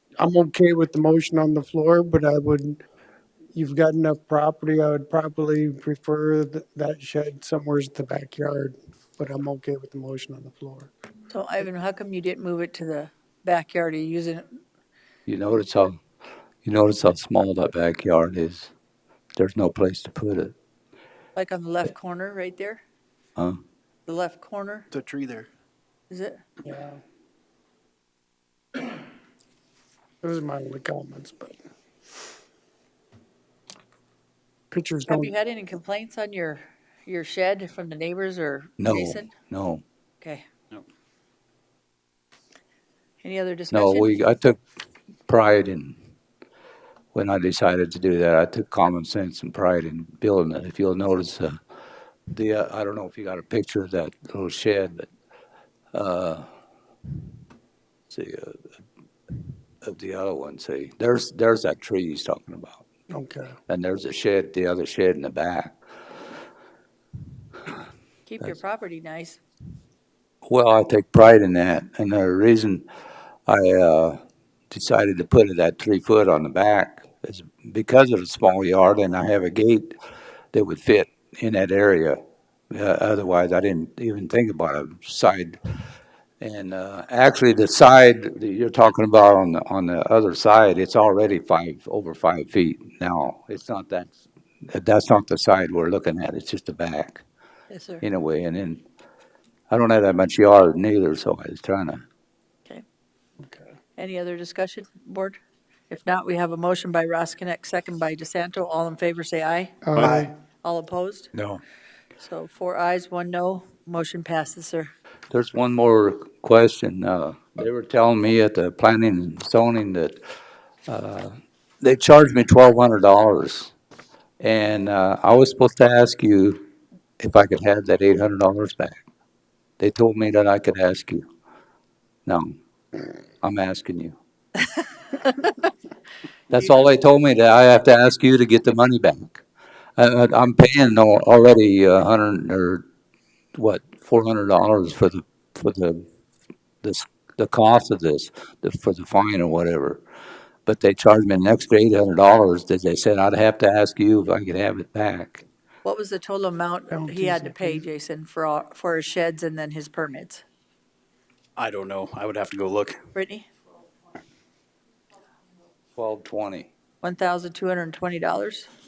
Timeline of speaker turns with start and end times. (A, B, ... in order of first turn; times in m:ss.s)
0:00.2-0:02.8 A
0:03.5-0:10.9 A
0:11.3-0:14.6 B
0:15.2-0:16.0 C
0:16.6-0:18.7 C
0:19.4-0:20.5 C
0:21.4-0:22.8 B
0:24.1-0:24.8 B
0:24.9-0:25.5 D
0:26.1-0:26.4 B
0:26.6-0:27.0 A
0:30.2-0:31.6 A
0:34.7-0:35.3 A
0:35.0-0:39.3 B
0:38.8-0:39.8 C
0:43.2-0:44.1 B
0:43.7-0:44.6 C
0:45.3-0:46.0 C
0:47.1-0:51.6 C
0:52.3-0:55.1 C
0:55.9-0:56.5 C
0:58.1-0:58.7 C
0:59.8-1:02.8 C
1:03.1-1:03.6 A
1:03.7-1:05.8 C
1:08.3-1:09.4 B
1:10.4-1:12.8 C
1:13.5-1:14.2 C
1:14.7-1:19.9 C
1:20.5-1:22.2 C
1:22.7-1:25.6 C
1:26.4-1:37.2 C
1:37.7-1:38.0 B
1:38.0-1:38.8 C
1:39.7-1:42.0 C
1:44.0-1:45.4 B
1:45.9-1:49.8 B
1:49.8-1:50.3 A
1:50.0-1:50.3 D
1:50.6-1:51.3 B
1:52.2-1:54.9 B
1:55.3-2:00.2 C
2:00.9-2:03.7 C
2:04.4-2:06.6 C
2:07.2-2:09.0 C
2:09.8-2:11.3 C
2:12.2-2:12.6 C
2:13.4-2:14.2 C
2:16.5-2:19.4 C
2:20.0-2:22.8 C
2:23.6-2:26.0 C
2:26.8-2:30.0 C
2:30.6-2:35.4 C
2:35.8-2:40.4 B
2:36.9-2:37.8 A
2:41.6-2:43.0 D
2:43.1-2:43.5 B
2:46.0-2:46.7 C
2:47.0-2:48.7 B